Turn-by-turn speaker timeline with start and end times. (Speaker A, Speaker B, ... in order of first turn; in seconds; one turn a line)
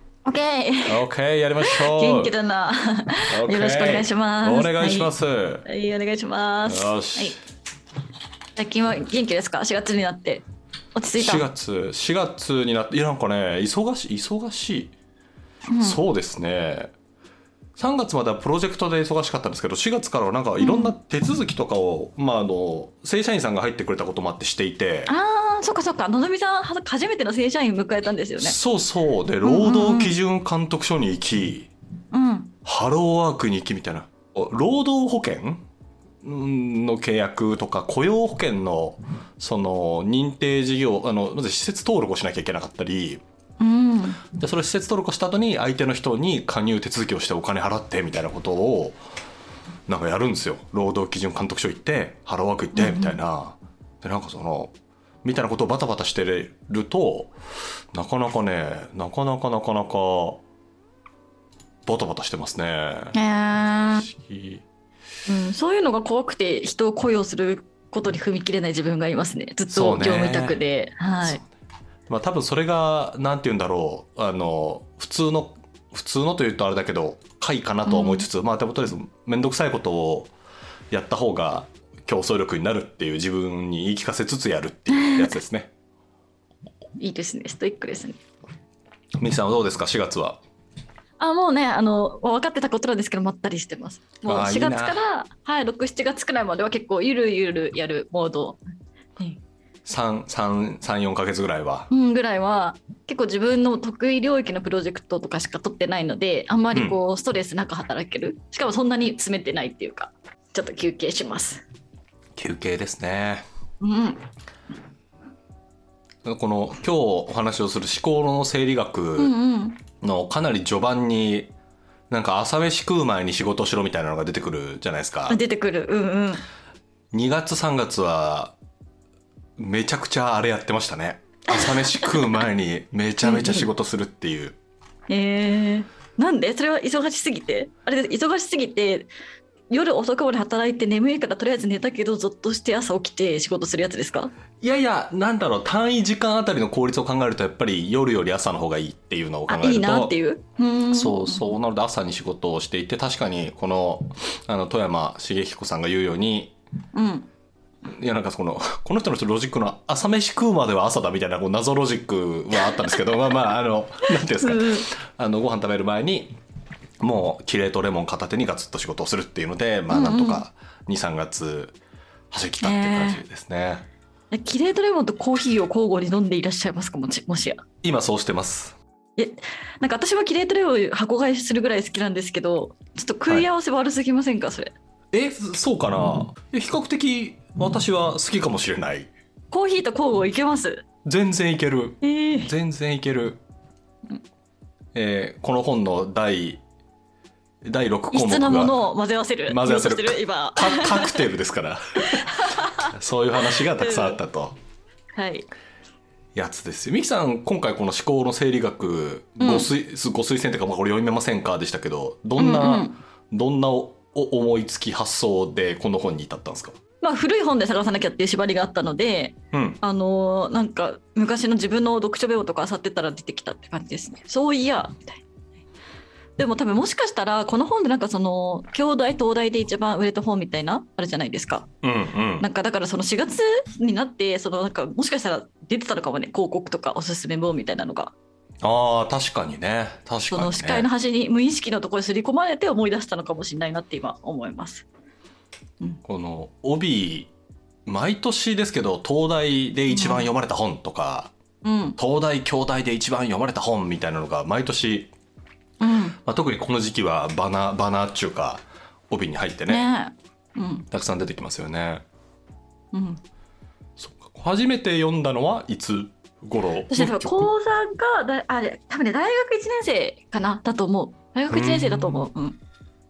Speaker A: 0.3-1.0
Speaker B: 0.9-2.3
Speaker A: 1.6-5.1
Speaker B: 3.3-5.7
Speaker A: 5.7-7.4
Speaker B: 6.7-7.4
Speaker A: 8.6-10.4
Speaker A: 10.9-11.5
Speaker B: 11.1-14.9
Speaker A: 15.7-16.0
Speaker B: 15.8-16.9
Speaker B: 17.8-25.1
Speaker A: 20.6-21.0
Speaker A: 25.1-28.6
Speaker B: 28.4-31.7
Speaker A: 29.4-30.1
Speaker A: 32.1-32.5
Speaker B: 32.6-35.6
Speaker B: 36.2-43.2
Speaker A: 43.6-44.2
Speaker B: 44.3-49.0
Speaker B: 49.9-57.3
Speaker A: 52.8-53.2
Speaker B: 57.9-60.4
Speaker B: 61.9-63.2
Speaker A: 63.1-64.1
Speaker B: 64.0-64.7
Speaker A: 65.3-71.4
Speaker B: 69.7-70.6
Speaker B: 71.2-71.5
Speaker B: 72.1-80.3
Speaker A: 77.8-78.3
Speaker B: 80.9-85.7
Speaker A: 84.9-85.4
Speaker A: 87.0-88.2
Speaker B: 89.2-90.4
Speaker A: 91.2-98.6
Speaker B: 94.3-95.0
Speaker B: 99.8-101.9
Speaker A: 101.9-111.6
Speaker B: 106.7-107.0
Speaker B: 112.4-113.4
Speaker A: 113.8-114.2
Speaker B: 116.2-119.3
Speaker A: 119.2-119.8
Speaker B: 120.0-121.5
Speaker B: 122.1-125.4
Speaker A: 125.3-126.4
Speaker B: 127.1-128.6
Speaker B: 129.6-134.6
Speaker A: 131.5-132.4
Speaker A: 133.2-133.7
Speaker A: 135.1-139.1
Speaker A: 139.7-144.3
Speaker B: 144.6-150.2
Speaker A: 149.5-151.5
Speaker B: 150.9-156.6
Speaker A: 156.9-157.3
Speaker B: 157.8-166.4
Speaker A: 162.7-162.9
Speaker A: 164.2-164.9
Speaker B: 167.0-171.8
Speaker A: 169.9-170.4
Speaker B: 172.3-173.9
Speaker A: 172.6-173.2
Speaker A: 174.3-177.6
Speaker B: 177.8-178.8
Speaker A: 179.2-184.7
Speaker B: 185.1-189.1
Speaker A: 189.5-190.8
Speaker B: 191.1-193.4
Speaker A: 192.0-192.5
Speaker B: 194.9-196.6
Speaker B: 197.6-198.8
Speaker A: 198.1-201.3
Speaker B: 199.5-204.6
Speaker A: 202.2-202.9
Speaker A: 203.5-204.2
Speaker A: 205.2-205.5
Speaker B: 206.3-216.8
Speaker A: 209.4-209.7
Speaker A: 212.4-213.0
Speaker A: 217.0-225.2
Speaker B: 219.5-219.8
Speaker A: 226.4-231.7
Speaker B: 231.8-232.5
Speaker A: 232.4-238.1
Speaker B: 238.6-240.9
Speaker A: 240.3-244.9
Speaker B: 246.0-247.3
Speaker B: 247.9-251.3
Speaker A: 249.9-250.3
Speaker A: 251.6-252.0
Speaker B: 252.0-255.1
Speaker A: 255.8-256.2
Speaker B: 256.2-259.8
Speaker A: 259.7-260.9
Speaker B: 260.9-262.0
Speaker A: 262.9-263.2
Speaker B: 264.0-267.5
Speaker A: 266.9-272.6
Speaker B: 271.5-272.3